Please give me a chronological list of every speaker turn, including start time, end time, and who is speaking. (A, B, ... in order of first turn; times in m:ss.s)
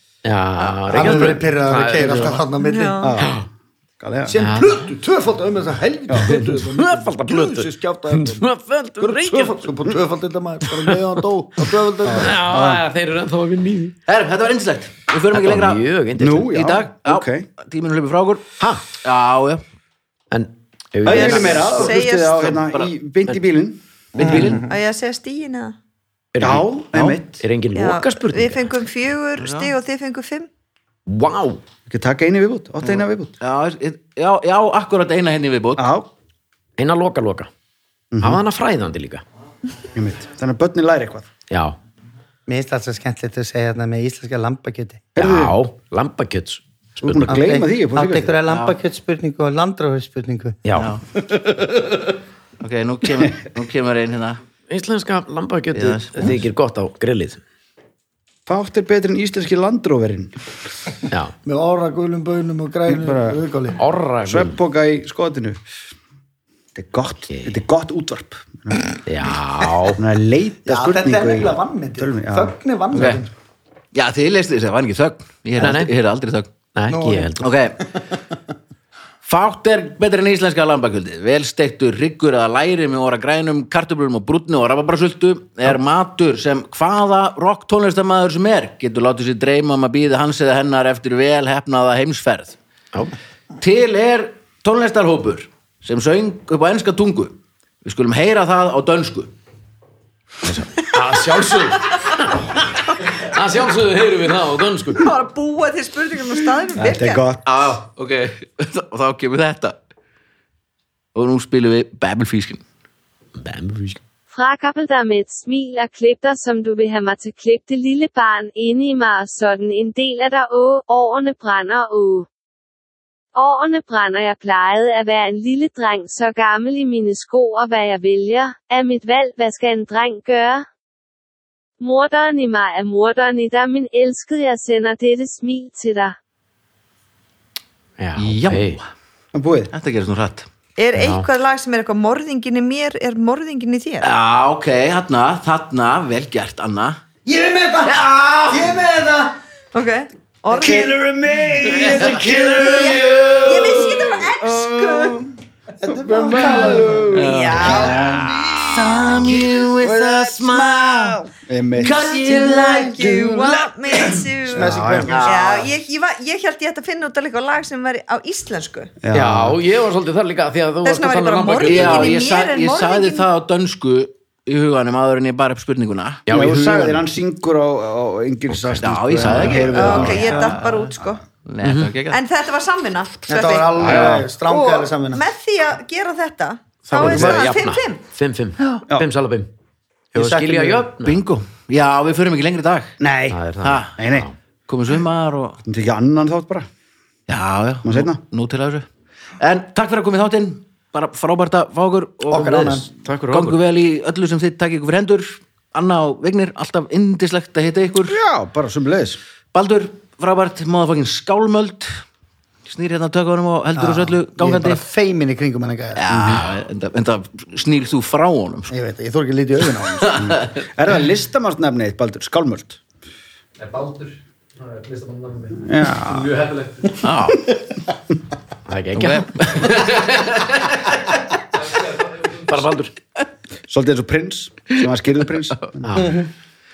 0:00.2-0:02.4 A
0:00.6-0:01.3 B
0:00.9-0:03.1 C
0:02.1-0:02.4 D
0:02.6-0:03.1 E
0:03.0-0:03.4 D
0:03.2-0:03.5 A
0:04.0-0:04.4 D
0:04.3-0:07.0 C
0:04.4-0:04.7 A
0:06.1-0:08.5 D
0:06.2-0:09.6 A
0:09.0-0:10.0 D
0:09.3-0:12.4 C
0:10.7-0:11.1 A
0:12.0-0:12.8 D
0:12.1-0:14.0 A
0:14.1-0:15.8 B
0:15.3-0:16.5 A
0:16.2-0:17.5 D
0:16.5-0:18.4 B
0:19.0-0:19.6 B
0:20.3-0:21.7 A
0:21.0-0:24.5 D
0:21.1-0:23.4 B
0:21.7-0:22.4 E
0:24.1-0:24.7 C
0:24.2-0:24.6 B
0:24.6-0:25.7 E
0:26.3-0:28.7 A
0:26.4-0:27.4 D
0:27.7-0:30.5 E
0:29.4-0:29.7 B
0:31.1-0:31.6 A
0:31.9-0:33.3 D
0:32.8-0:35.8 B
0:35.8-0:36.1 D
0:36.8-0:37.5 A
0:38.1-0:38.4 D
0:38.2-0:39.2 A
0:39.9-0:41.3 D
0:41.5-0:41.8 A
0:42.5-0:45.0 C
0:45.2-0:45.6 D
0:45.2-0:47.4 A
0:47.0-0:48.4 D
0:47.2-0:50.6 C
0:48.4-0:48.7 B
0:50.6-0:51.0 A
0:50.7-0:51.0 B
0:52.6-0:54.4 B
0:54.7-0:57.4 A
0:55.7-0:56.3 B
0:58.5-1:00.3 D
1:01.4-1:03.8 C
1:02.9-1:03.4 D
1:03.8-1:04.6 A
1:04.2-1:05.6 D
1:06.7-1:08.9 D
1:07.3-1:07.5 A
1:09.1-1:10.0 A
1:10.0-1:13.1 D
1:10.6-1:13.3 C
1:12.9-1:13.2 B
1:13.9-1:16.5 B
1:15.6-1:15.9 A
1:16.7-1:17.4 A
1:16.9-1:17.4 C
1:17.4-1:17.8 B
1:19.2-1:32.6 B
1:33.6-1:39.3 B
1:40.4-1:45.1 A
1:45.0-1:47.2 E
1:46.8-1:47.4 D
1:47.4-1:49.8 B
1:51.1-1:52.6 B
1:53.4-1:54.0 A
1:54.3-2:02.3 F
2:03.3-2:10.7 F
2:11.8-2:16.1 F
2:18.0-2:18.8 A
2:18.2-2:18.9 B
2:19.3-2:19.7 D
2:19.7-2:20.5 B
2:20.8-2:24.1 E
2:20.9-2:21.3 A
2:24.0-2:27.0 B
2:27.2-2:29.3 C
2:27.8-2:28.7 B
2:29.7-2:30.9 E
2:30.5-2:35.2 D
2:31.6-2:33.9 B
2:31.9-2:32.7 C
2:32.6-2:35.2 E
2:35.8-2:39.6 C
2:35.9-2:40.7 D
2:37.1-2:41.2 B
2:37.2-2:38.0 E
2:40.2-2:40.6 C
2:41.4-2:42.2 D
2:41.8-2:43.7 B
2:42.0-2:48.9 E
2:42.0-2:42.9 C
2:44.5-2:45.4 C
2:44.5-2:45.1 D
2:45.1-2:45.7 B
2:49.0-2:49.6 D
2:49.1-2:52.2 A
2:50.8-2:53.3 E
2:51.6-2:56.2 B
2:56.2-2:57.0 A
2:56.3-3:00.3 D
2:58.5-2:58.8 A
2:58.8-3:00.9 B
2:59.7-3:01.2 E
3:01.4-3:02.2 B
3:01.6-3:01.9 A
3:02.1-3:03.8 E
3:03.3-3:05.2 C
3:03.8-3:04.2 A
3:03.8-3:04.2 D
3:04.4-3:08.0 E
3:06.8-3:09.5 A
3:06.9-3:07.5 C
3:10.1-3:11.2 A
3:10.1-3:10.8 C
3:11.0-3:13.0 B
3:13.0-3:13.4 D
3:13.3-3:14.3 A
3:13.6-3:14.0 B
3:14.0-3:14.3 D
3:14.7-3:15.6 B
3:15.6-3:16.7 D
3:17.3-3:18.8 B
3:17.8-3:18.2 D
3:19.4-3:28.2 B
3:22.3-3:22.9 C
3:23.0-3:23.6 A
3:28.1-3:29.2 D
3:29.5-3:32.0 B
3:32.6-3:34.8 B
3:33.8-3:36.0 C
3:35.9-3:38.7 B
3:36.1-3:36.4 D
3:38.7-3:40.4 C
3:40.0-3:40.5 B
3:40.2-3:42.8 D
3:43.6-3:47.0 A
3:45.6-3:46.3 D
3:47.0-3:47.5 B
3:48.7-3:49.8 A
3:49.0-3:51.4 B
3:51.6-3:52.9 A
3:53.7-3:55.8 D
3:55.8-3:56.2 A
3:56.0-3:56.3 C